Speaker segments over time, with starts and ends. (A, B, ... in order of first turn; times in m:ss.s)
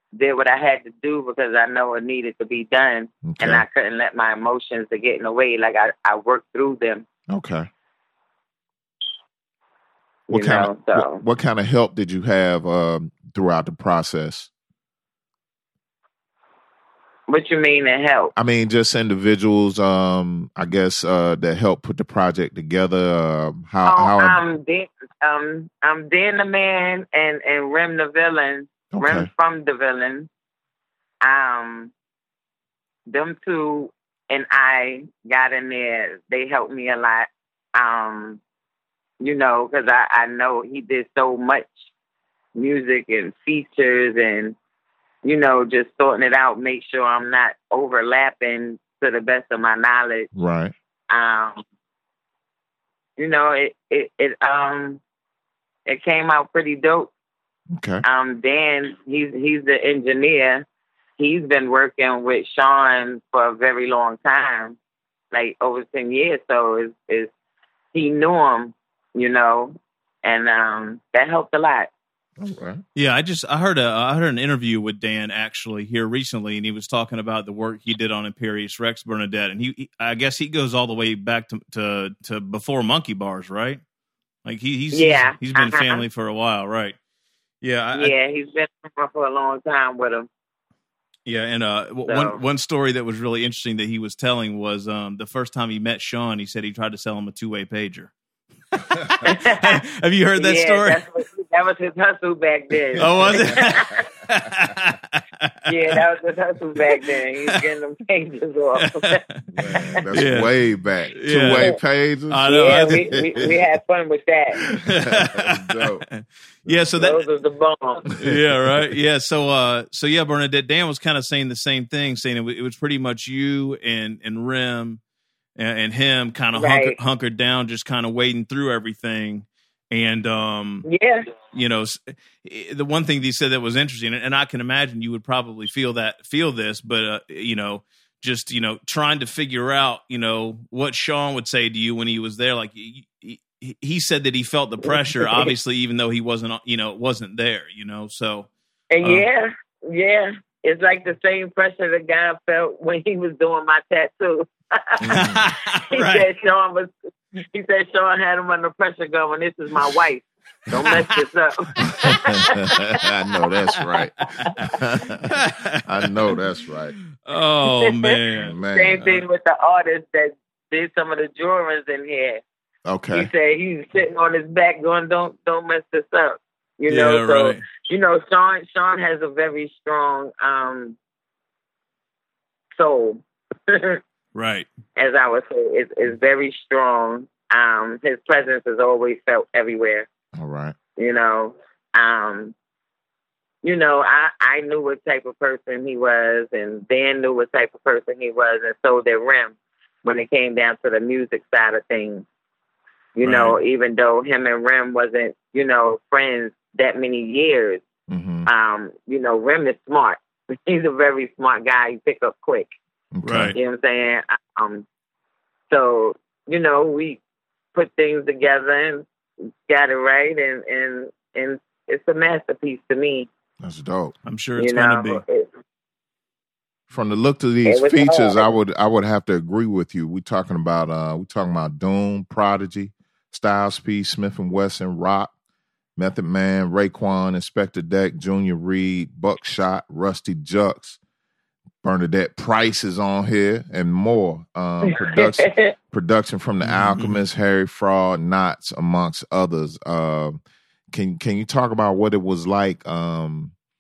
0:00.1-0:07.1 A
0:03.2-0:03.6 B
0:07.3-0:07.7 B
0:10.3-0:11.2 A
0:10.3-0:14.5 B
0:17.3-0:18.3 A
0:18.4-0:24.4 B
0:23.8-0:30.3 A
0:28.9-0:29.3 B
0:31.2-0:31.9 A
0:33.1-0:38.4 A
0:39.2-0:41.8 A
0:42.6-0:44.6 A
0:45.2-0:50.3 A
0:50.4-0:50.7 B
0:51.1-0:51.6 A
0:53.2-0:55.0 A
0:55.9-0:57.1 A
0:57.7-0:58.0 B
0:58.0-1:00.6 A
1:01.2-1:04.8 A
1:05.3-1:07.3 A
1:07.9-1:11.9 A
1:12.4-1:12.8 B
1:13.0-1:23.8 C
1:24.4-1:27.0 C
1:24.9-1:26.0 A
1:27.6-1:28.2 C
1:27.9-1:30.3 A
1:31.3-1:38.1 C
1:32.1-1:32.4 A
1:38.9-1:41.0 C
1:39.2-1:39.8 A
1:40.4-1:44.0 A
1:43.0-1:43.6 B
1:43.0-1:46.0 C
1:45.7-1:49.2 A
1:48.8-1:49.4 C
1:49.5-1:53.6 B
1:49.7-1:50.0 A
1:50.1-1:50.5 C
1:51.2-1:51.7 C
1:52.3-1:53.1 C
1:52.5-1:54.6 A
1:54.6-1:57.2 C
1:54.9-1:56.0 B
1:56.7-1:57.0 B
1:56.9-1:58.1 A
1:58.2-1:58.9 B
1:58.2-2:05.0 C
2:05.6-2:10.9 C
2:06.5-2:07.0 A
2:10.9-2:11.3 A
2:11.5-2:28.5 C
2:24.8-2:25.5 A
2:28.9-2:35.2 A
2:35.0-2:35.4 B
2:35.1-2:36.3 C
2:35.9-2:36.9 A
2:37.5-2:42.8 A
2:42.0-2:47.0 B
2:44.4-2:44.7 C
2:45.2-2:46.4 C
2:47.2-2:48.5 C
2:47.6-2:52.4 A
2:48.4-2:49.0 B
2:52.9-2:53.3 B
2:53.1-3:01.0 A
2:56.9-2:57.6 C
3:02.8-3:04.0 A
3:04.4-3:04.7 C
3:05.0-3:10.1 A
3:10.4-3:10.8 B
3:11.0-3:12.6 A
3:13.6-3:22.3 A
3:23.2-3:27.8 A
3:23.2-3:23.6 C
3:28.1-3:28.5 B
3:28.5-3:32.7 A
3:33.1-3:33.6 B
3:33.2-3:33.6 C
3:33.5-3:34.9 A
3:35.7-3:37.2 A
3:37.7-3:39.1 A
3:39.7-3:43.3 A
3:43.6-3:44.1 B
3:44.3-3:45.2 C
3:44.6-3:45.5 A
3:46.9-3:55.3 B
3:47.7-3:48.5 A
3:56.0-4:01.0 B
4:01.8-4:10.4 B
4:04.9-4:05.7 A
4:06.6-4:07.2 C
4:10.9-4:13.5 B